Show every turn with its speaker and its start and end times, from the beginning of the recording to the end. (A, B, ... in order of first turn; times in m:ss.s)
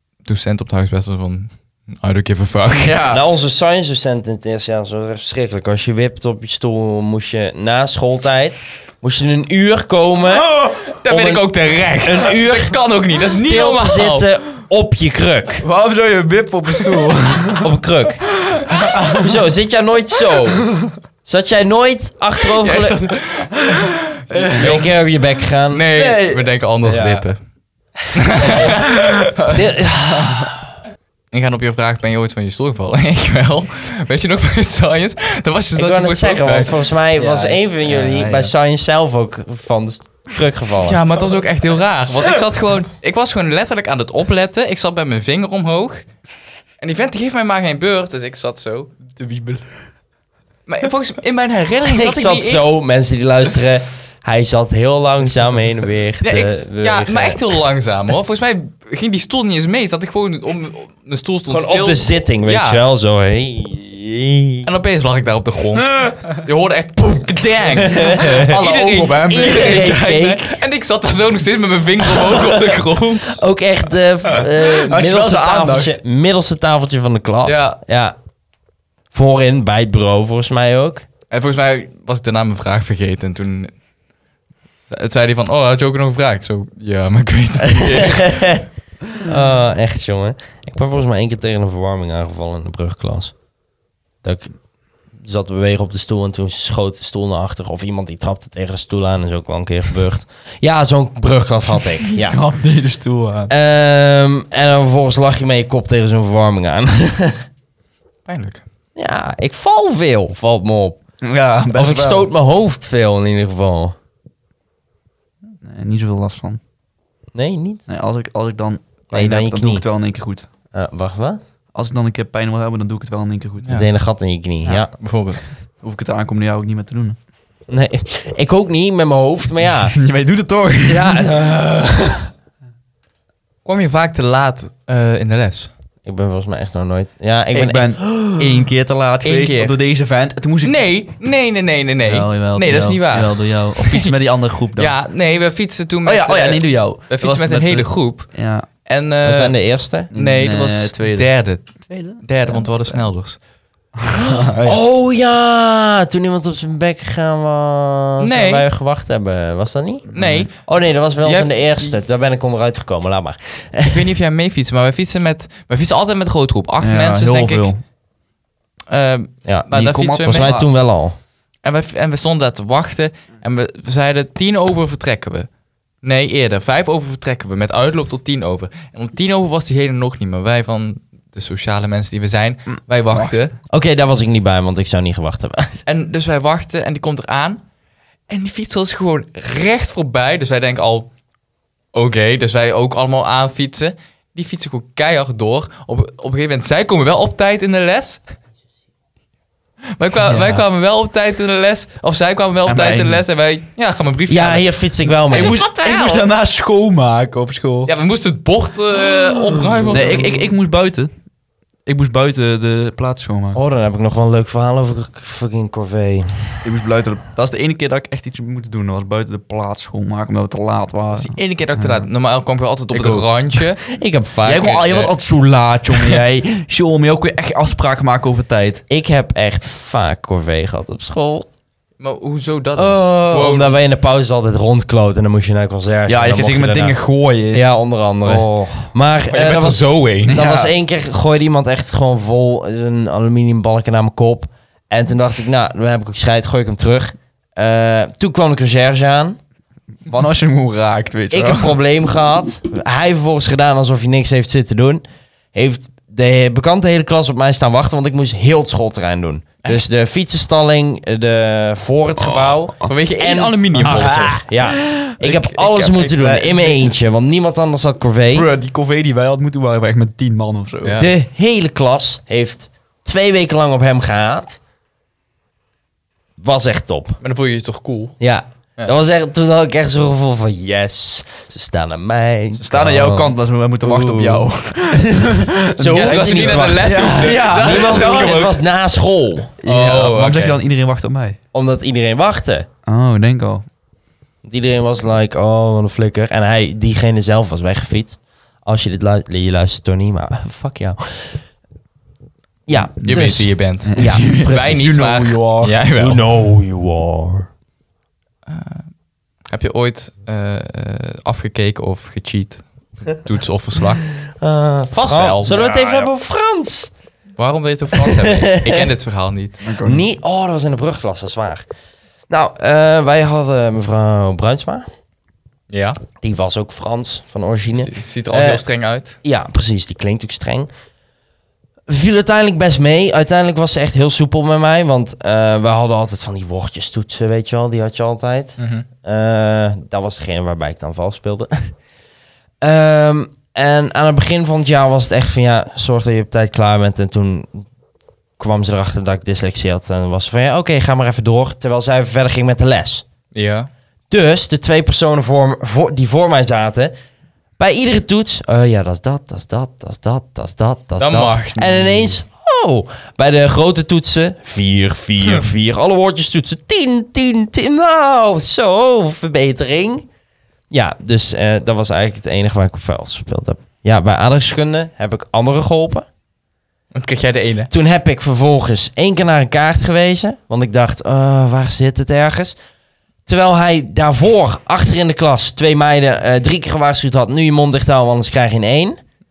0:00.2-0:03.0 A
0:02.8-0:03.2 B
0:03.1-0:15.6 C
0:11.0-0:14.3 A
0:15.6-0:17.7 B
0:17.6-0:20.7 C
0:18.5-0:19.4 B
0:21.2-0:23.0 C
0:22.6-0:24.9 A
0:23.6-0:24.9 B
0:24.5-0:25.8 C
0:25.7-0:27.4 A
0:25.9-0:27.2 B
0:28.1-0:29.0 A
0:28.4-0:30.5 B
0:28.4-0:30.6 C
0:31.3-0:36.8 A
0:35.8-0:41.0 C
0:37.2-0:38.5 B
0:40.8-0:46.1 A
0:46.8-0:49.2 A
0:49.1-0:49.6 B
0:50.7-0:52.7 A
0:51.9-0:57.4 C
0:56.2-1:02.8 A
1:01.5-1:04.7 C
1:04.6-1:13.4 A
1:07.8-1:10.6 C
1:08.2-1:10.1 B
1:12.2-1:12.7 C
1:13.3-1:18.2 C
1:14.3-1:16.0 B
1:17.4-1:17.8 A
1:19.1-1:21.0 C
1:21.3-1:23.7 A
1:24.9-1:28.4 A
1:27.9-1:28.6 C
1:29.2-1:33.3 C
1:34.2-1:34.5 C
1:35.2-1:42.4 C
1:42.2-1:43.5 B
1:43.5-1:47.4 C
1:48.3-1:48.6 A
1:49.0-1:51.0 C
1:51.2-1:52.3 B
1:51.7-1:54.0 C
1:55.6-1:56.6 B
1:57.4-1:57.8 C
1:57.9-2:00.5 B
1:59.1-1:59.8 C
2:00.7-2:01.4 C
2:01.7-2:03.8 B
2:03.7-2:04.9 C
2:04.9-2:05.5 A
2:05.8-2:07.2 B
2:07.7-2:10.0 C
2:09.9-2:11.3 B
2:10.9-2:12.3 C
2:13.6-2:15.7 A
2:16.0-2:18.5 C
2:17.5-2:20.8 B
2:19.2-2:19.8 A
2:20.6-2:24.1 A
2:22.1-2:24.9 B
2:24.8-2:28.3 A
2:26.0-2:28.7 B
2:28.8-2:29.6 A
2:29.2-2:30.1 C
2:30.1-2:33.4 A
2:30.1-2:33.0 B
2:34.0-2:34.8 B
2:34.3-2:44.1 C
2:38.2-2:38.7 A
2:40.1-2:40.5 B
2:40.1-2:40.6 A
2:41.2-2:42.0 A
2:43.9-2:47.7 A
2:46.8-2:47.8 B
2:48.9-2:50.6 A
2:49.4-2:51.2 C
2:49.7-2:50.7 B
2:51.6-2:55.5 A
2:56.0-3:03.6 A
3:03.7-3:05.8 C
3:05.9-3:07.6 A
3:08.3-3:11.1 A
3:11.9-3:18.2 A
3:20.0-3:24.7 A
3:20.2-3:20.6 B
3:22.7-3:23.2 B
3:24.3-3:25.6 C
3:25.3-3:26.3 A
3:25.3-3:27.9 B
3:27.9-3:30.4 A
3:29.9-3:31.1 B
3:31.9-3:33.6 B
3:33.5-3:36.6 C
3:36.6-3:42.1 B
3:41.1-3:43.8 A
3:42.9-3:43.3 B
3:43.9-3:44.8 C
3:44.4-3:48.8 B
3:44.6-3:45.1 A
3:48.9-3:51.5 C
3:52.0-3:53.8 A
3:52.8-3:57.0 C
3:56.1-3:57.7 B
3:57.5-4:09.4 C
3:58.2-3:58.9 B
3:59.3-4:00.4 A
4:00.3-4:00.7 B
4:10.1-4:11.8 B
4:11.3-4:28.5 C
4:19.6-4:19.9 A
4:22.2-4:22.8 B
4:22.8-4:24.3 A
4:23.8-4:27.0 B
4:28.3-4:31.0 B
4:30.8-4:31.1 A
4:31.0-4:34.6 C
4:36.4-4:37.2 C
4:37.2-4:38.2 A
4:38.2-4:49.5 C
4:42.6-4:48.4 B
4:45.9-4:48.6 A
4:49.6-4:51.4 B
4:49.6-4:50.6 A
4:51.5-4:52.7 C
4:52.9-4:53.7 B
4:54.4-5:01.4 C
5:02.7-5:04.5 C
5:03.0-5:06.2 A
5:03.8-5:05.8 B
5:06.0-5:07.5 C
5:08.5-5:08.9 A
5:09.5-5:14.0 A
5:14.2-5:16.9 C
5:14.9-5:15.6 A
5:15.4-5:16.1 B
5:17.4-5:19.6 A
5:18.0-5:18.9 C
5:19.6-5:20.1 B
5:19.8-5:21.7 C
5:22.3-5:24.9 C
5:25.7-5:26.0 A
5:26.2-5:28.6 C
5:27.7-5:29.2 A
5:29.2-5:30.7 C
5:31.9-5:41.7 C
5:38.6-5:38.9 A
5:42.6-5:47.7 C
5:48.4-5:53.0 C
5:53.3-5:53.7 A
5:54.1-5:56.9 C
5:57.6-6:10.1 C
6:01.0-6:01.9 A
6:10.7-6:16.1 C
6:16.9-6:17.7 A
6:17.7-6:22.6 C
6:23.3-6:29.0 C